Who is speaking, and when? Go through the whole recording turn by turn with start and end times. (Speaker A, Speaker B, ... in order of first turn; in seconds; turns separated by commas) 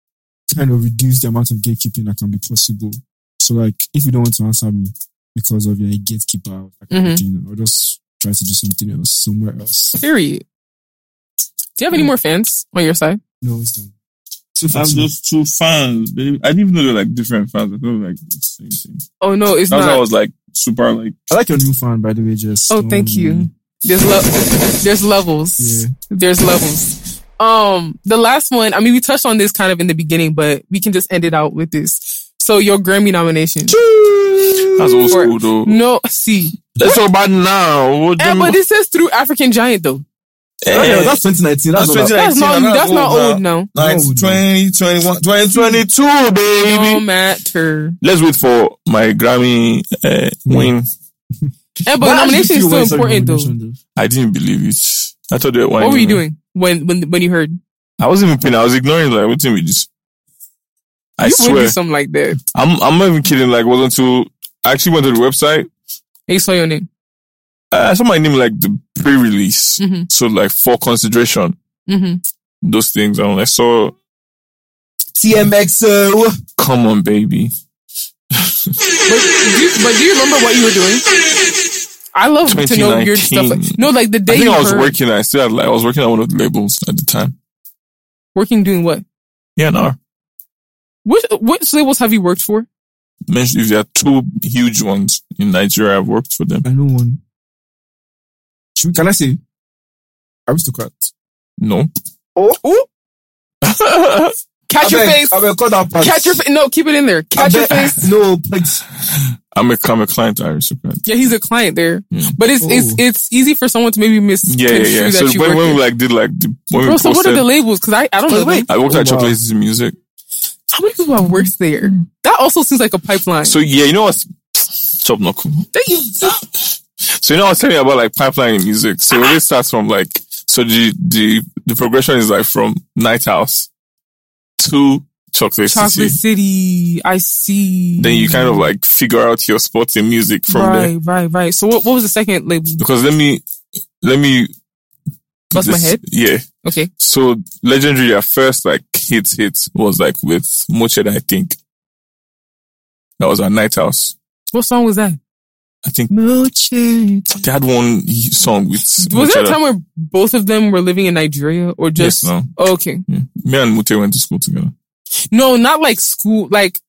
Speaker A: 0.5-10.0, Speaker B: 6.9-7.2, Speaker B: 9.9-10.4, Speaker B: 11.8-13.2, Speaker A: 13.4-13.9, Speaker A: 14.6-15.1, Speaker C: 14.7-19.0, Speaker B: 19.2-20.0, Speaker C: 19.7-21.1, Speaker A: 21.3-23.5, Speaker B: 22.7-33.8, Speaker A: 25.6-25.9, Speaker A: 33.7-35.2, Speaker C: 34.7-35.8, Speaker B: 35.1-37.0, Speaker C: 36.8-38.6, Speaker B: 38.2-40.0, Speaker C: 40.6-41.2, Speaker A: 40.7-42.1, Speaker C: 41.8-47.0, Speaker B: 42.1-43.7, Speaker A: 43.8-44.4, Speaker B: 45.5-45.8, Speaker B: 46.6-48.0, Speaker C: 48.0-50.9, Speaker A: 50.5-50.7, Speaker B: 51.9-53.5, Speaker A: 52.0-53.8, Speaker C: 54.0-56.2, Speaker B: 55.8-57.6, Speaker C: 58.0-59.9, Speaker C: 61.2-61.8, Speaker B: 61.2-62.4, Speaker C: 62.5-65.7, Speaker B: 66.3-66.9, Speaker C: 67.7-71.6, Speaker B: 69.8-70.1, Speaker B: 71.9-72.2, Speaker C: 72.6-74.0, Speaker A: 75.2-76.4, Speaker C: 76.6-77.5, Speaker C: 78.3-78.7, Speaker B: 79.1-81.0, Speaker B: 82.1-84.9, Speaker C: 82.5-87.3, Speaker B: 88.3-89.0, Speaker C: 89.6-90.0, Speaker B: 91.0-92.7, Speaker C: 93.3-96.7, Speaker A: 96.7-97.2, Speaker A: 98.8-99.4, Speaker A: 100.5-101.1, Speaker C: 101.6-101.9, Speaker A: 102.3-102.6, Speaker C: 103.6-104.3, Speaker B: 104.7-105.4, Speaker A: 104.8-106.4, Speaker B: 106.0-108.1, Speaker A: 107.4-108.8, Speaker C: 109.0-111.0, Speaker B: 111.1-115.8, Speaker A: 112.6-113.0, Speaker C: 114.5-117.5, Speaker B: 116.8-118.7, Speaker A: 118.3-119.4, Speaker C: 118.7-120.0, Speaker B: 120.7-123.6, Speaker C: 123.5-125.7, Speaker B: 125.7-126.4, Speaker C: 126.2-133.7, Speaker C: 134.6-136.2, Speaker B: 135.7-138.6, Speaker C: 138.0-140.9, Speaker B: 140.5-142.8, Speaker C: 142.8-143.4, Speaker C: 144.0-144.5, Speaker B: 145.5-146.0, Speaker C: 145.5-146.4, Speaker B: 146.6-146.9, Speaker C: 147.0-151.6, Speaker C: 153.2-154.2, Speaker B: 154.5-155.2, Speaker C: 155.8-156.1, Speaker A: 156.1-157.4, Speaker C: 157.4-159.6, Speaker B: 159.0-163.0, Speaker C: 162.0-162.5, Speaker C: 163.1-164.7, Speaker B: 165.3-166.8